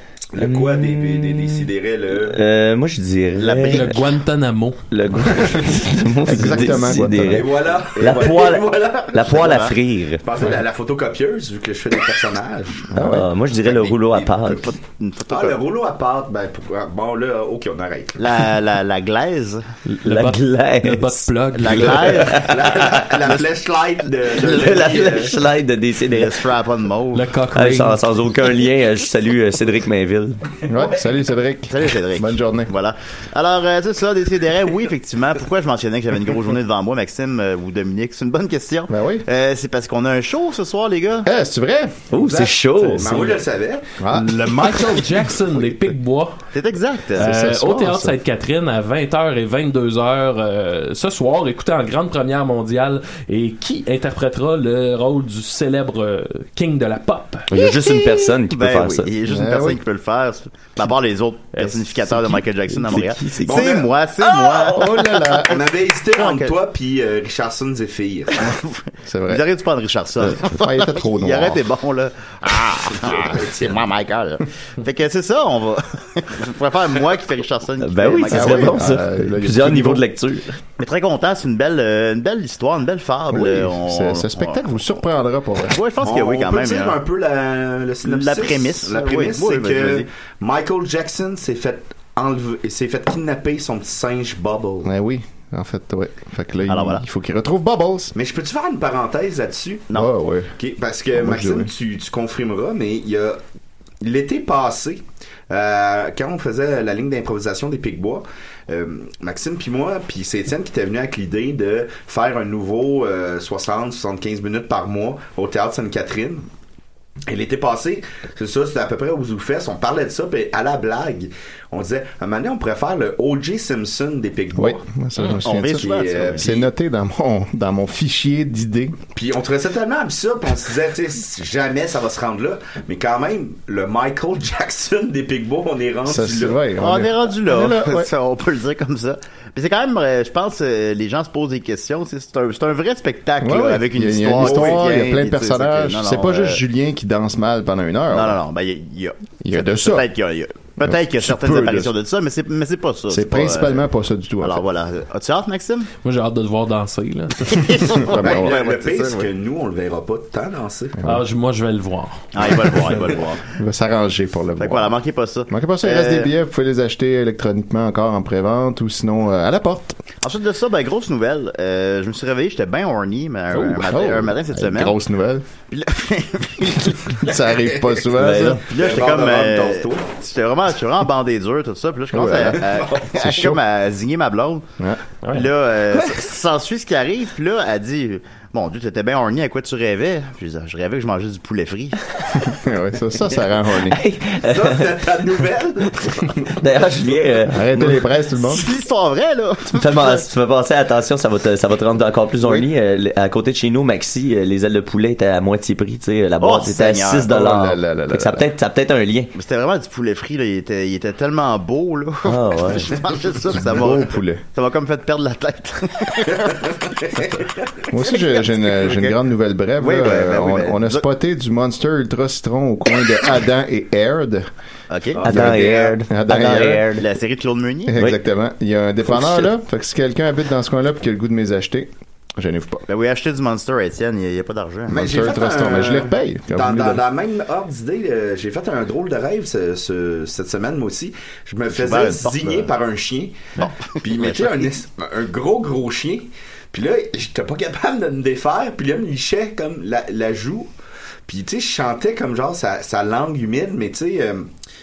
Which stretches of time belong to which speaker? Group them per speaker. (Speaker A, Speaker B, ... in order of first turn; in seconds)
Speaker A: 0.3-2.4, 7.3-9.3, 10.2-12.9, 13.6-14.6, 15.3-18.3, 22.4-25.4, 42.1-43.9, 63.5-63.9, 65.5-68.4, 72.9-73.8, 86.0-94.9, 98.1-99.9, 100.6-103.4, 104.0-116.5, 117.3-124.8, 125.8-126.6, 129.1-136.6, 144.4-144.8, 158.2-161.0, 178.7-180.1, 182.6-183.0, 194.4-196.3, 225.2-226.0, 234.9-250.7, 251.3-254.5
Speaker B: 0.4-4.0, 4.9-10.2, 12.9-14.7, 20.0-23.4, 24.5-26.4, 27.5-30.6, 42.1-43.4, 57.5-59.1, 62.8-65.2, 77.8-80.5, 178.1-178.6, 193.8-195.0, 196.4-198.0, 199.7-209.3, 212.2-212.9, 225.2-227.0, 229.1-229.5
Speaker C: 3.4-4.0, 9.2-9.8, 14.5-15.6, 18.2-19.6, 21.6-22.5, 24.4-24.8, 26.1-27.3, 31.7-41.3, 46.5-47.3, 57.5-65.5, 66.1-66.6, 68.4-78.9, 80.8-84.6, 85.7-87.0, 88.0-90.1, 96.7-97.0, 125.3-126.7, 136.8-146.6, 148.1-153.8, 154.4-155.9, 157.5-159.3, 162.3-163.4, 164.6-166.3, 170.2-175.0, 175.7-177.2, 178.7-184.6, 185.3-192.0, 198.4-200.2, 206.4-207.5, 209.3-217.3, 218.1-219.1, 219.8-221.0, 224.9-225.2, 227.0-228.0, 232.9-235.0, 241.8-242.7, 243.6-244.7
Speaker D: 3.6-4.8, 19.9-22.3, 27.1-28.0, 44.1-46.4, 47.1-57.5, 61.5-62.4, 156.0-157.9, 161.0-162.3, 185.2-185.5
Speaker E: 6.2-7.5, 12.9-13.3, 30.7-32.7, 38.9-39.2, 41.2-42.1, 44.0-44.5, 47.2-48.1, 59.2-59.8, 64.7-65.6, 69.0-69.4, 70.5-71.6, 78.3-80.0, 83.3-85.8, 94.8-98.1, 99.9-100.5, 101.2-101.7, 124.5-129.0, 136.1-138.1, 143.4-148.4, 149.4-150.0, 150.8-151.9, 153.1-154.6, 158.0-158.5, 163.6-170.0, 173.5-175.4, 177.2-178.6, 182.1-183.6, 192.4-194.0, 197.5-198.6, 207.3-208.4, 213.5-214.4, 217.9-224.5, 225.3-226.9, 227.9-232.8, 234.9-237.0